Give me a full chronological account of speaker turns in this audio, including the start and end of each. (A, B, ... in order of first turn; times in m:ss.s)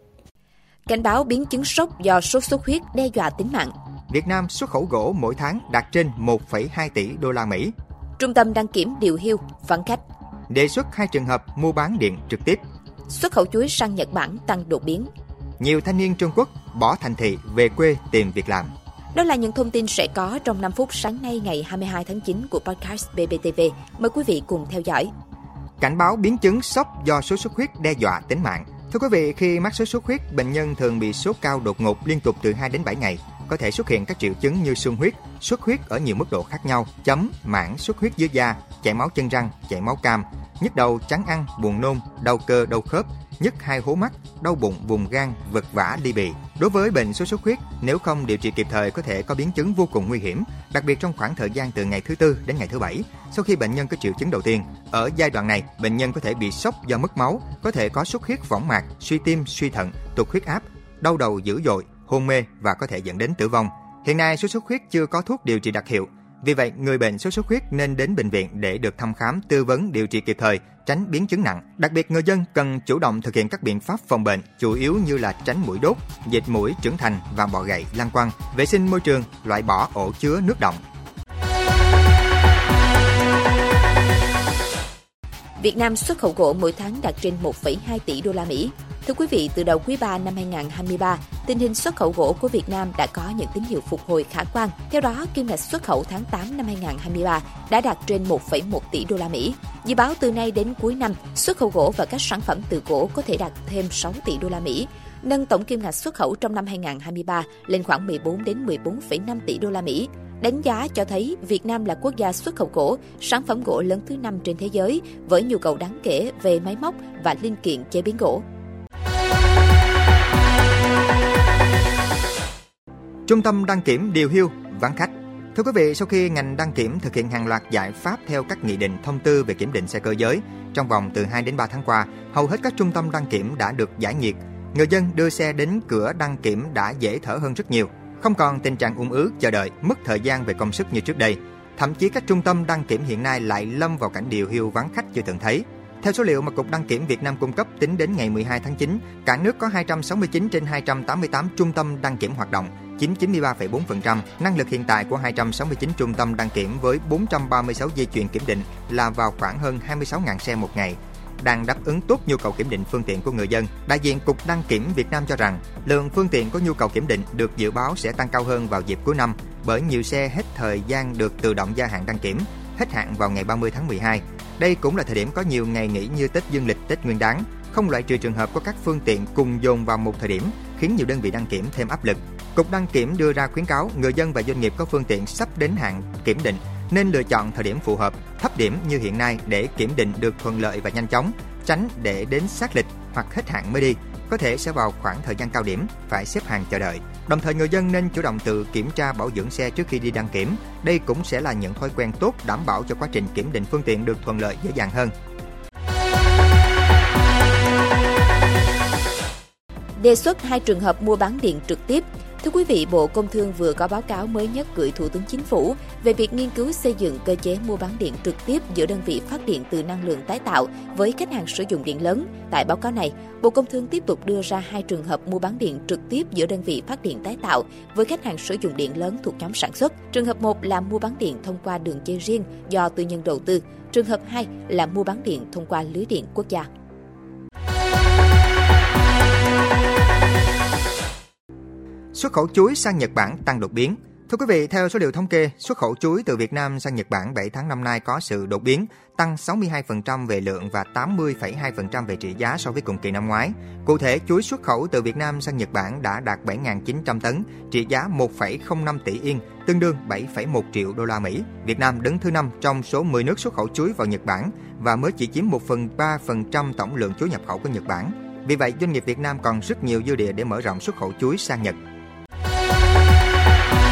0:00.9-0:03.7 A
0:04.1-0:07.7 B
0:08.2-0:10.0 A
0:10.5-0:12.6 B
0:13.1-0:15.1 A
0:15.6-0:18.7 B
0:19.1-0:25.1 A
0:25.8-1:20.8 B
1:25.6-1:58.4 A
2:03.3-3:25.1 B
3:30.0-3:56.7 A
4:02.1-4:31.8 B